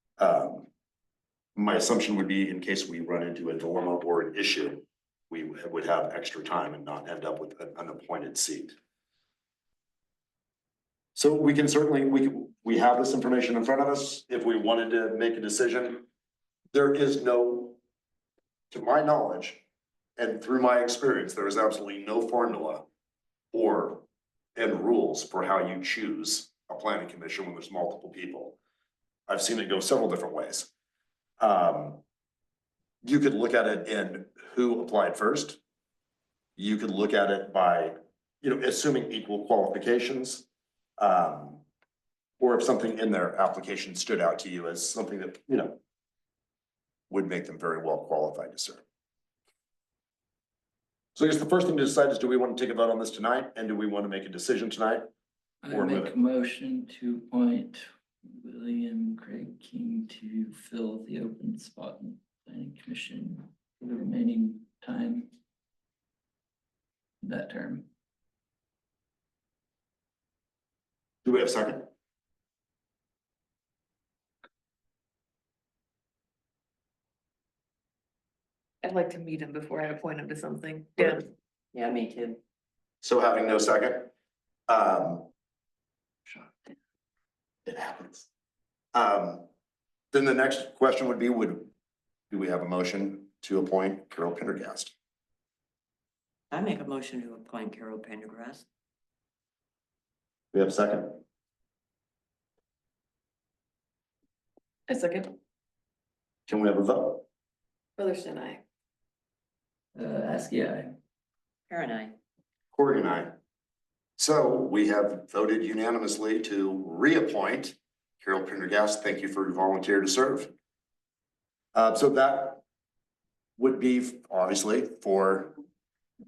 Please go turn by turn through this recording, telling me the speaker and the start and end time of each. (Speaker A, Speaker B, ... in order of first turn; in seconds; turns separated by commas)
Speaker A: 0.2-0.7, Speaker A: 1.6-8.8, Speaker A: 11.2-16.0, Speaker A: 16.7-17.8, Speaker A: 18.7-19.6, Speaker A: 20.2-22.9, Speaker A: 23.5-24.1, Speaker A: 24.6-28.6, Speaker A: 29.3-30.7, Speaker A: 31.4-32.0, Speaker A: 33.0-35.6, Speaker A: 36.6-40.5, Speaker A: 41.0-41.6, Speaker A: 42.4-45.8, Speaker A: 47.1-48.8, Speaker A: 51.2-55.1, Speaker B: 55.6-65.3, Speaker A: 55.7-56.1, Speaker B: 67.2-67.9, Speaker A: 71.2-71.9, Speaker C: 78.8-81.2, Speaker A: 81.0-81.2, Speaker D: 81.7-82.4, Speaker A: 83.0-84.1, Speaker A: 84.7-85.3, Speaker A: 87.7-88.3, Speaker A: 88.9-89.5, Speaker A: 90.1-91.7, Speaker A: 92.3-94.9, Speaker D: 96.5-98.7, Speaker A: 100.5-101.2, Speaker C: 104.9-105.3, Speaker A: 106.5-107.2, Speaker C: 108.0-108.6, Speaker B: 110.0-110.9, Speaker D: 111.7-112.1, Speaker A: 112.7-113.3, Speaker A: 114.2-120.5, Speaker A: 121.7-122.6, Speaker A: 123.6-125.5